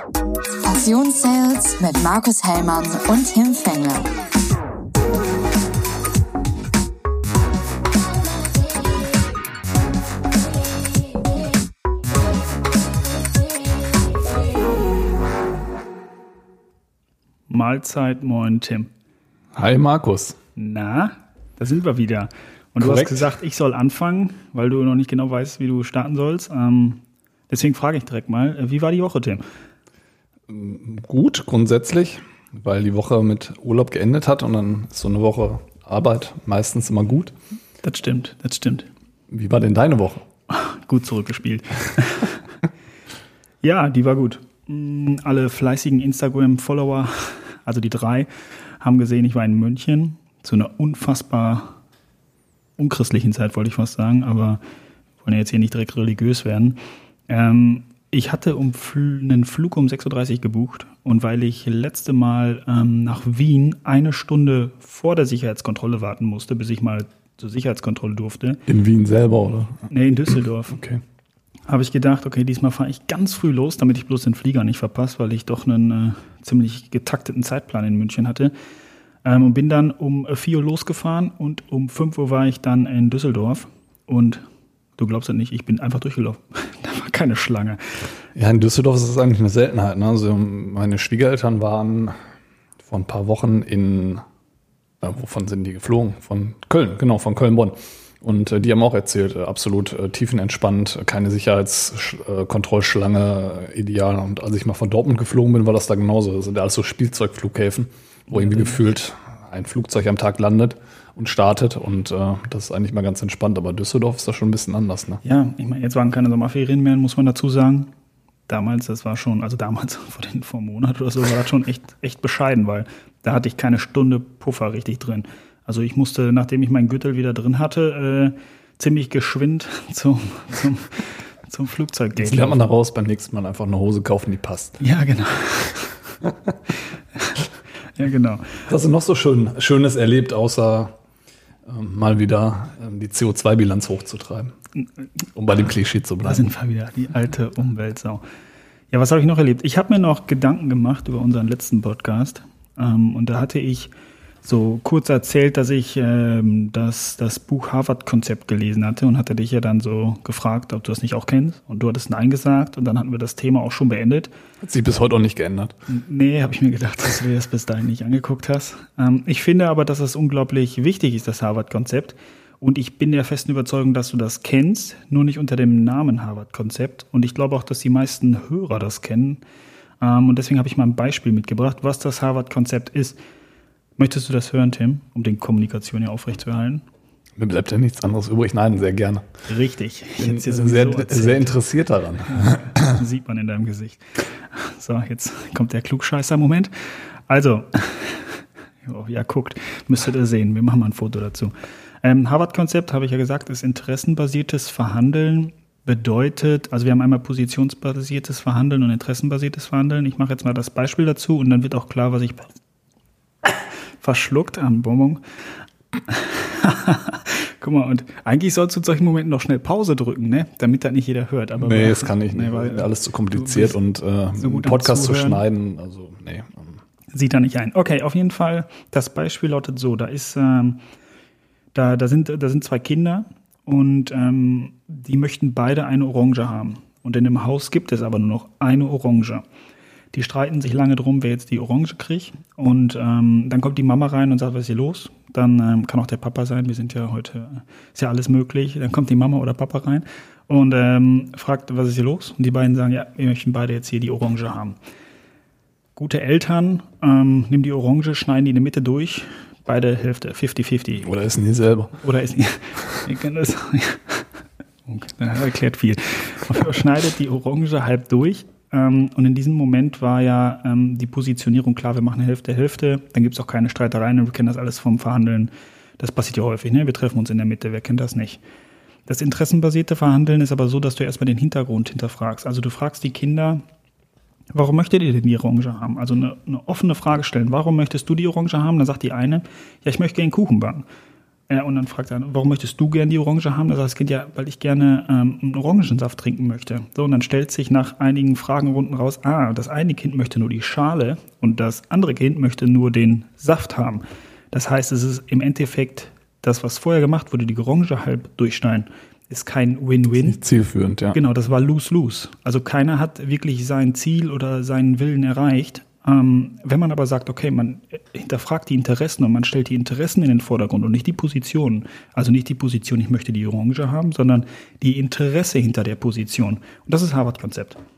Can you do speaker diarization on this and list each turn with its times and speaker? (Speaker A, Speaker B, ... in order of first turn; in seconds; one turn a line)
Speaker A: 0.6-4.1
Speaker B: 17.5-18.9
Speaker C: 19.5-20.4
Speaker B: 20.6-29.4
Speaker C: 22.8-23.2
Speaker C: 30.5-37.3
Speaker B: 37.8-38.9
Speaker C: 39.3-40.2
Speaker B: 40.5-42.4
Speaker B: 43.6-48.3
Speaker B: 48.8-51.8
Speaker B: 52.8-54.6
Speaker B: 55.2-68.6
Speaker C: 68.7-69.9
Speaker B: 69.9-70.8
Speaker C: 70.7-71.0
Speaker B: 71.7-78.5
Speaker B: 79.2-84.4
Speaker B: 85.0-88.0
Speaker C: 88.3-92.2
Speaker C: 92.8-94.2
Speaker C: 95.0-115.2
Speaker B: 108.3-108.8
Speaker B: 115.2-117.9
Speaker B: 118.5-132.7
Speaker C: 132.2-134.8
Speaker B: 134.8-136.0
Speaker C: 136.2-136.5
Speaker B: 137.9-138.6
Speaker C: 138.7-140.9
Speaker C: 141.7-144.5
Speaker C: 145.3-146.5
Speaker B: 146.2-148.2
Speaker B: 148.9-153.9
Speaker B: 154.4-164.3
Speaker C: 164.6-165.7
Speaker B: 165.9-179.4
Speaker B: 180.0-183.2
Speaker B: 184.0-186.8
Speaker C: 187.4-189.2
Speaker B: 189.5-191.6
Speaker C: 190.2-192.9
Speaker B: 192.2-212.5
Speaker B: 213.4-215.2
Speaker B: 216.1-223.8
Speaker C: 221.6-226.8
Speaker B: 224.4-225.4
Speaker B: 227.1-230.8
Speaker B: 231.7-239.4
Speaker B: 240.1-254.8
Speaker B: 255.9-261.1
Speaker C: 261.0-262.0
Speaker B: 262.0-264.3
Speaker B: 264.9-278.4
Speaker B: 279.1-283.6
Speaker B: 284.5-290.8
Speaker B: 291.5-310.4
Speaker C: 310.2-311.2
Speaker B: 311.1-327.8